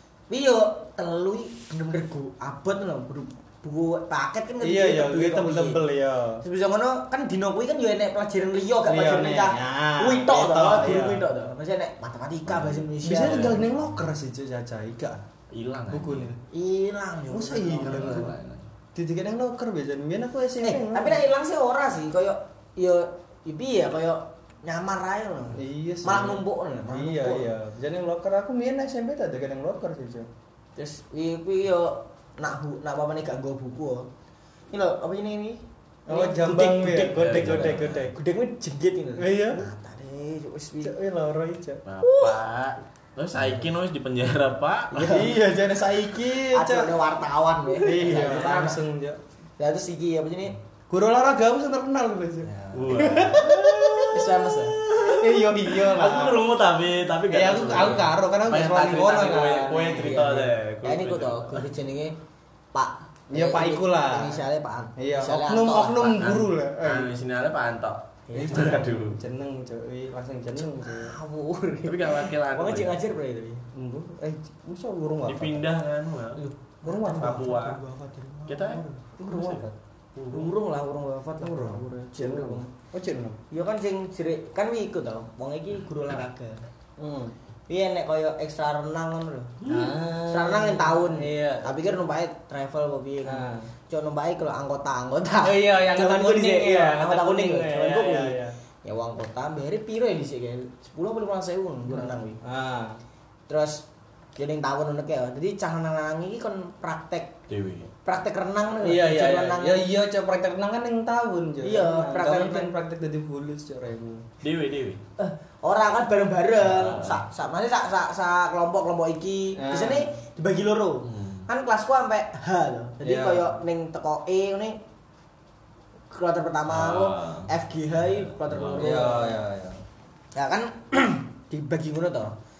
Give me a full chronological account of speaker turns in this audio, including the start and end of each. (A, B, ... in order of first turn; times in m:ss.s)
0:00.3-0:05.8 A
0:04.6-0:06.4 B
0:06.4-0:13.6 A
0:08.9-0:11.2 B
0:12.5-0:13.9 C
0:13.0-0:15.2 B
0:15.5-0:16.3 C
0:15.9-0:16.4 B
0:16.5-0:18.3 A
0:17.3-0:18.4 B
0:17.8-0:18.7 C
0:18.9-0:21.2 B
0:20.6-0:27.5 A
0:25.5-0:30.3 B
0:30.8-0:34.1 A
0:34.7-0:40.9 A
0:36.1-0:38.1 B
0:37.2-0:38.1 C
0:39.2-0:39.7 B
0:40.8-0:41.8 B
0:41.8-0:45.4 C
0:42.0-0:42.4 A
0:44.9-0:47.0 B
0:46.4-0:48.8 A
0:47.8-0:49.2 B
0:49.6-0:50.6 A
0:50.9-0:54.2 B
0:52.4-0:53.0 A
0:52.7-1:01.6 C
0:54.1-0:54.8 A
0:55.0-0:56.4 B
0:57.3-1:00.4 B
0:59.8-1:02.2 A
1:02.7-1:06.2 A
1:03.3-1:04.4 B
1:05.0-1:07.1 B
1:06.1-1:09.2 C
1:08.3-1:08.8 A
1:08.3-1:11.1 B
1:10.6-1:13.7 A
1:11.8-1:13.0 C
1:13.7-1:15.6 B
1:15.2-1:16.4 C
1:16.4-1:18.5 A
1:16.8-1:19.8 B
1:17.2-1:17.8 C
1:18.5-1:19.6 C
1:20.2-1:20.4 C
1:20.3-1:22.7 A
1:21.4-1:23.4 B
1:23.5-1:26.6 A
1:27.0-1:27.3 B
1:27.7-1:29.6 A
1:29.6-1:29.9 C
1:29.7-1:32.0 B
1:30.3-1:42.4 A
1:33.2-1:33.7 B
1:35.4-1:38.5 B
1:41.9-1:43.0 B
1:43.5-1:43.8 A
1:44.3-1:47.4 A
1:47.5-1:47.9 C
1:48.0-1:49.8 A
1:48.8-1:54.2 B
1:51.6-1:52.7 A
1:54.4-1:55.0 C
1:55.2-2:04.8 A
1:56.6-1:57.2 C
1:59.6-2:00.1 B
2:01.1-2:01.4 C
2:03.0-2:03.6 B
2:06.1-2:09.4 A
2:06.7-2:07.5 C
2:08.0-2:09.1 C
2:08.8-2:09.8 B
2:10.3-2:12.4 A